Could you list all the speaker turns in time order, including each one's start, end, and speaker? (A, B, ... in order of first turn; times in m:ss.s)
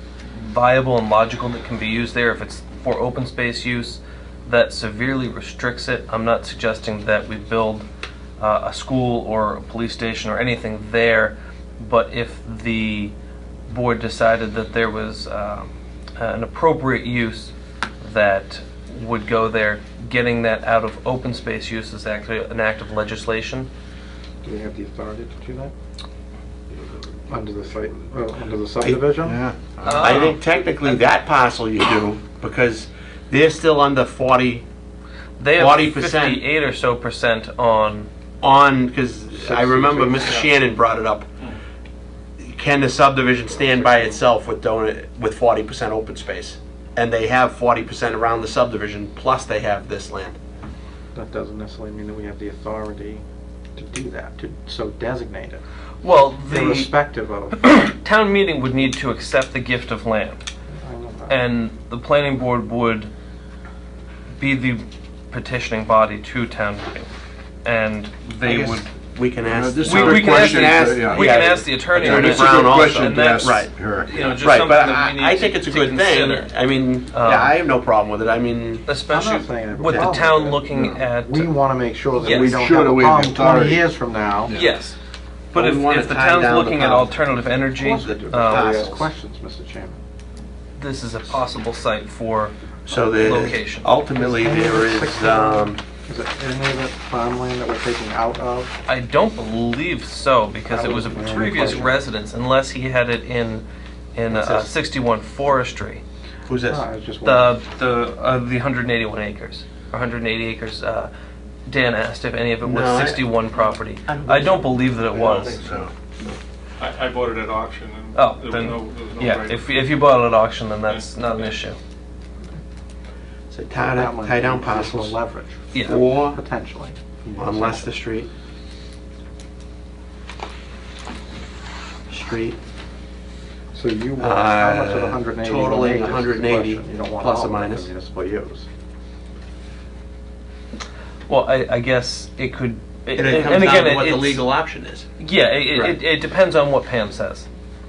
0:00.3-0:07.9 A
0:08.4-0:13.1 A
0:13.7-0:23.7 A
0:24.4-0:25.7 B
0:26.7-0:27.9 C
0:27.3-0:29.4 B
0:29.2-0:30.3 C
0:29.8-0:30.4 A
0:29.9-0:34.6 D
0:35.4-0:38.1 A
0:35.6-0:36.4 D
0:38.4-0:41.3 D
0:39.3-0:40.3 B
0:40.2-0:40.5 E
0:42.4-0:50.4 D
0:51.1-0:53.2 B
0:53.8-0:55.6 B
0:56.0-0:56.9 A
0:56.4-0:57.6 B
0:57.6-1:00.4 A
1:00.7-1:01.4 B
1:01.3-1:03.1 A
1:04.4-1:07.1 A
1:07.6-1:08.9 A
1:08.4-1:13.7 D
1:09.5-1:14.5 C
1:09.8-1:16.5 A
1:14.2-1:18.9 D
1:17.1-1:17.6 A
1:18.9-1:21.5 A
1:19.1-1:24.6 B
1:19.9-1:20.2 D
1:22.2-1:23.9 C
1:22.2-1:22.6 A
1:24.5-1:25.0 A
1:25.5-1:27.1 D
1:25.5-1:28.8 A
1:27.8-1:30.0 B
1:28.0-1:29.1 D
1:30.8-1:33.9 A
1:32.8-1:35.8 D
1:34.2-1:38.8 B
1:38.9-1:46.0 A
1:40.7-1:42.0 B
1:44.3-1:44.7 D
1:46.5-1:46.8 D
1:46.7-1:47.6 B
1:47.2-1:51.1 A
1:51.7-1:55.6 A
1:52.6-1:53.3 D
1:54.0-1:55.4 D
1:55.1-1:55.8 B
1:55.6-1:55.9 C
1:56.8-1:59.8 E
1:58.1-2:01.8 A
2:00.9-2:01.6 E
2:03.5-2:05.2 D
2:03.8-2:07.9 B
2:05.7-2:06.0 A
2:05.8-2:06.4 D
2:07.4-2:08.3 D
2:12.1-2:12.6 D
2:13.7-2:18.7 B
2:14.2-2:17.9 D
2:21.3-2:24.4 A
2:23.1-2:25.1 D
2:25.2-2:27.5 A
2:25.7-2:26.0 D